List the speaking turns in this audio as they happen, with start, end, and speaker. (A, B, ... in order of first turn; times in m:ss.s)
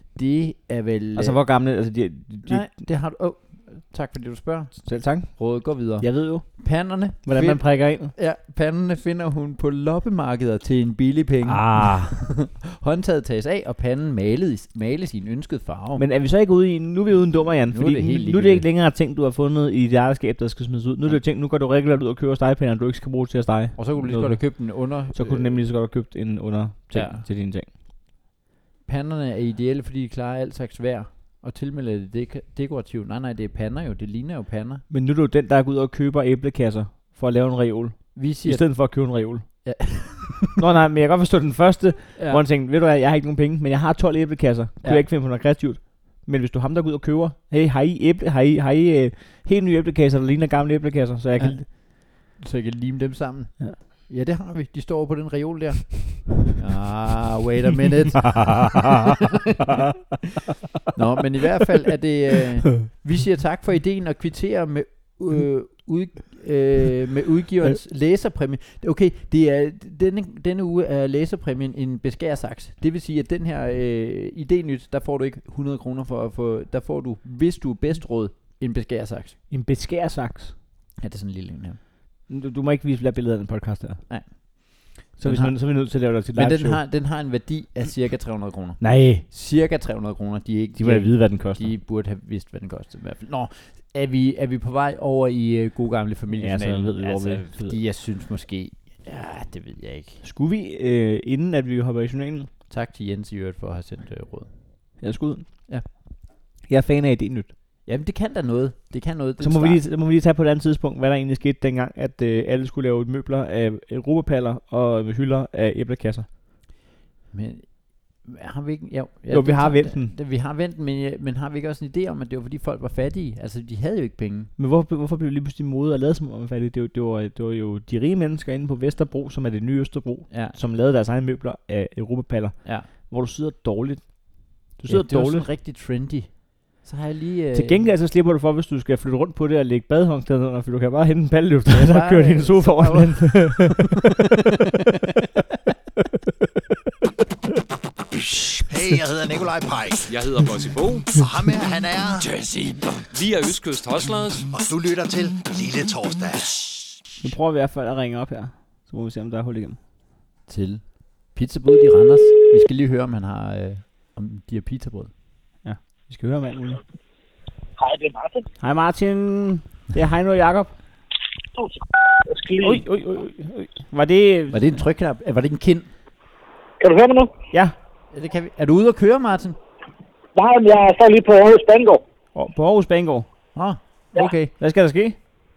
0:00.2-0:01.4 A
0:01.2-0:02.7 B
0:02.4-0:16.0 A
0:04.8-0:08.1 B
0:11.4-0:12.2 B
0:16.0-0:27.7 B
0:17.7-0:18.7 A
0:23.8-0:25.6 A
0:26.9-0:27.3 A
0:28.9-0:34.8 A
0:34.9-0:39.6 B
0:38.2-0:38.7 A
0:39.6-0:40.6 A
0:40.6-0:51.7 B
0:42.2-0:42.4 A
0:51.4-0:58.8 A
1:00.9-1:19.4 A
1:19.5-1:20.6 B
1:21.0-1:21.8 A
1:22.3-1:24.3 B
1:24.1-1:40.2 A
1:25.2-1:26.8 B
1:28.8-1:29.2 B
1:30.8-1:31.7 B
1:36.4-1:37.8 B
1:40.2-1:42.5 B
1:42.7-1:45.0 A
1:45.0-1:46.1 B
1:46.6-1:47.5 B
1:47.9-1:49.8 A
1:49.4-1:56.3 B
1:57.3-2:04.5 A
1:59.3-2:00.1 B
2:04.6-2:15.5 B
2:10.3-2:10.6 A
2:12.6-2:12.9 A
2:14.9-2:17.9 A
2:17.5-2:24.1 B
2:21.7-2:23.9 A
2:28.3-2:30.1 C
2:30.1-2:31.2 D
2:31.1-2:32.6 C
2:33.1-2:34.5 D
2:34.5-2:37.0 C
2:37.2-2:39.8 B
2:40.5-2:45.1 A
2:45.6-2:46.8 B
2:47.8-2:48.5 E
2:48.6-2:50.8 B
2:51.6-2:52.8 E
2:52.6-2:54.7 B
2:54.5-2:55.9 A
2:56.8-2:57.3 E
2:58.1-2:59.6 A
3:00.4-3:02.0 E
3:02.4-3:03.3 B
3:03.6-3:04.5 A
3:04.6-3:05.2 B